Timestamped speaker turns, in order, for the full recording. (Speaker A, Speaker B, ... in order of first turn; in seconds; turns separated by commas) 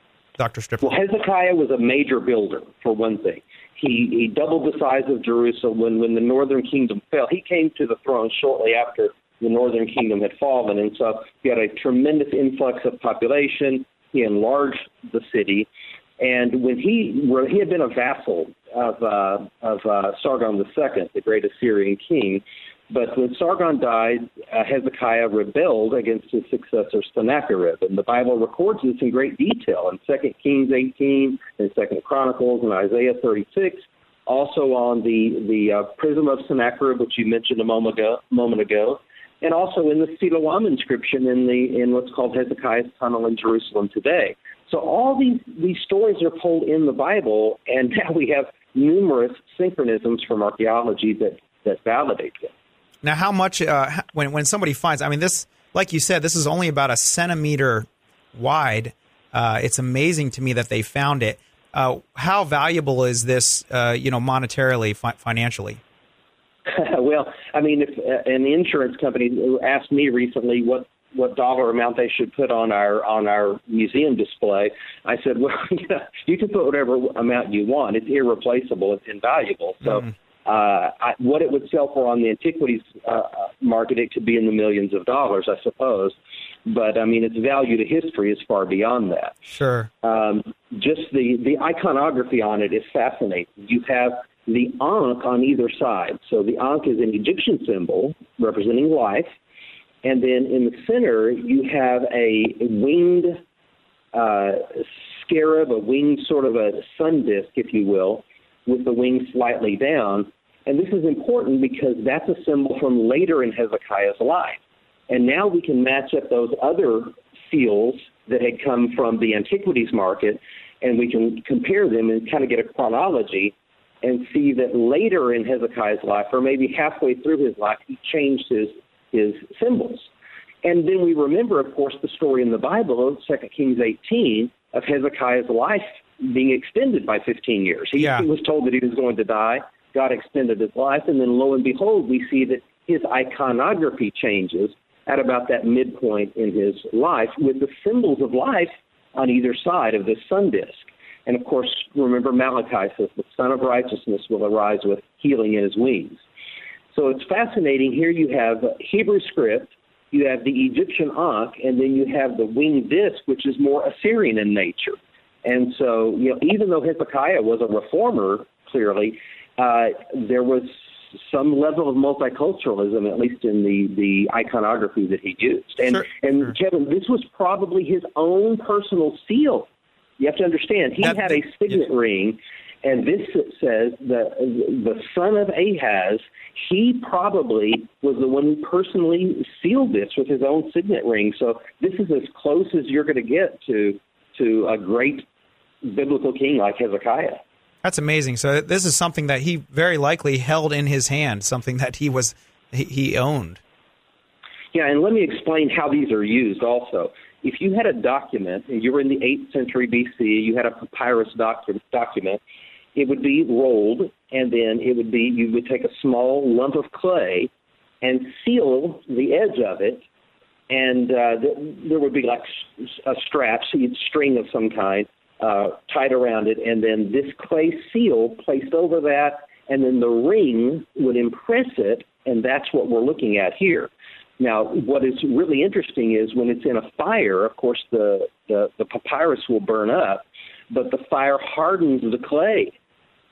Speaker A: 0.4-0.9, Speaker B: 0.8-15.7, Speaker B: 16.2-52.5, Speaker A: 53.0-65.8, Speaker B: 66.7-89.4, Speaker A: 89.5-89.9, Speaker B: 90.0-99.3, Speaker B: 100.0-103.4, Speaker B: 104.1-130.1, Speaker B: 130.6-156.2, Speaker A: 138.0-138.2, Speaker B: 156.9-179.7, Speaker B: 180.2-195.3, Speaker A: 181.0-181.3, Speaker B: 195.8-197.4, Speaker A: 197.8-203.6, Speaker B: 204.7-212.4, Speaker B: 212.9-217.5, Speaker B: 218.0-220.1, Speaker B: 220.7-242.8